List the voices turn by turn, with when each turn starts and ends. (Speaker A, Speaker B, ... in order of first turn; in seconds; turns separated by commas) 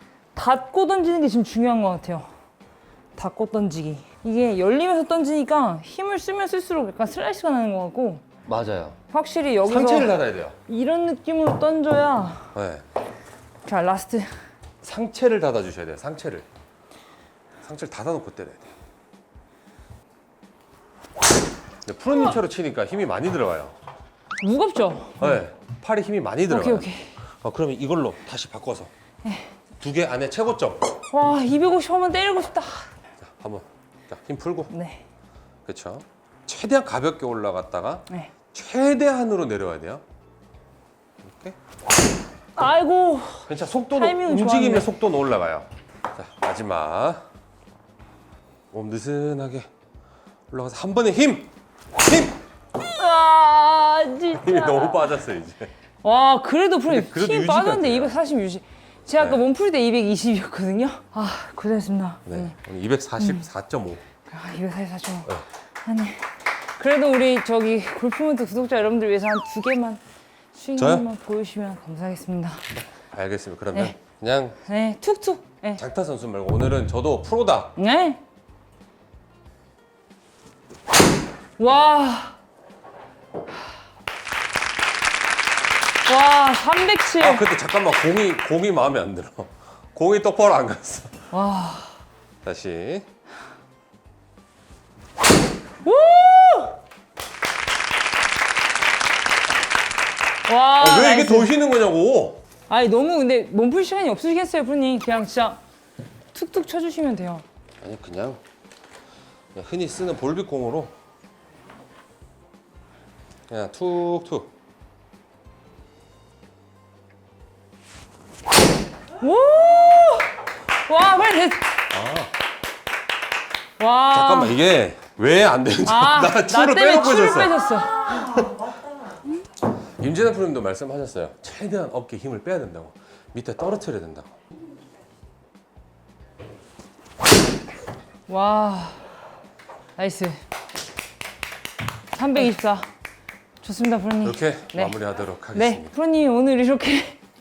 Speaker A: 0.3-2.3, Speaker A: 3.2-8.2, Speaker B: 8.4-9.0, Speaker A: 9.1-12.5, Speaker B: 9.6-10.6, Speaker B: 12.6-12.8, Speaker A: 13.7-14.3, Speaker B: 14.8-16.5, Speaker B: 17.6-18.7, Speaker B: 21.9-23.8, Speaker A: 22.1-22.4, Speaker A: 24.4-25.4, Speaker B: 25.2-26.9, Speaker A: 26.5-27.1, Speaker B: 27.4-28.9, Speaker A: 29.2-29.5, Speaker B: 29.8-30.8, Speaker A: 31.1-32.9, Speaker B: 33.2-34.7, Speaker A: 34.7-35.0, Speaker B: 35.7-40.0, Speaker B: 41.2-41.6, Speaker A: 42.6-44.9, Speaker B: 43.5-47.2, Speaker B: 48.7-49.7, Speaker B: 50.5-52.4, Speaker A: 52.9-55.1, Speaker B: 54.3-55.7, Speaker A: 56.0-62.6, Speaker B: 56.9-58.2, Speaker B: 62.3-64.0, Speaker A: 63.2-63.5, Speaker A: 64.3-65.3, Speaker A: 65.8-70.0, Speaker A: 70.5-72.7, Speaker B: 70.8-71.1, Speaker B: 73.0-74.6, Speaker A: 74.6-75.8, Speaker B: 75.8-77.8, Speaker A: 77.8-78.2, Speaker A: 81.6-82.4, Speaker A: 86.1-87.5, Speaker B: 87.2-91.1, Speaker A: 91.3-91.9, Speaker B: 92.4-93.0, Speaker A: 95.8-96.8, Speaker A: 100.5-101.5, Speaker B: 100.8-102.4, Speaker A: 102.7-105.6, Speaker A: 106.3-107.4, Speaker B: 107.8-108.4, Speaker B: 109.5-110.9, Speaker B: 113.5-114.5, Speaker A: 119.2-120.3, Speaker A: 120.9-121.7, Speaker B: 121.9-122.3, Speaker A: 123.8-124.7, Speaker B: 124.1-128.6, Speaker A: 125.8-128.4, Speaker B: 130.0-134.3, Speaker A: 138.3-139.2, Speaker A: 140.0-140.4, Speaker A: 142.1-142.9, Speaker A: 143.6-145.0, Speaker B: 144.2-146.0, Speaker A: 145.5-147.2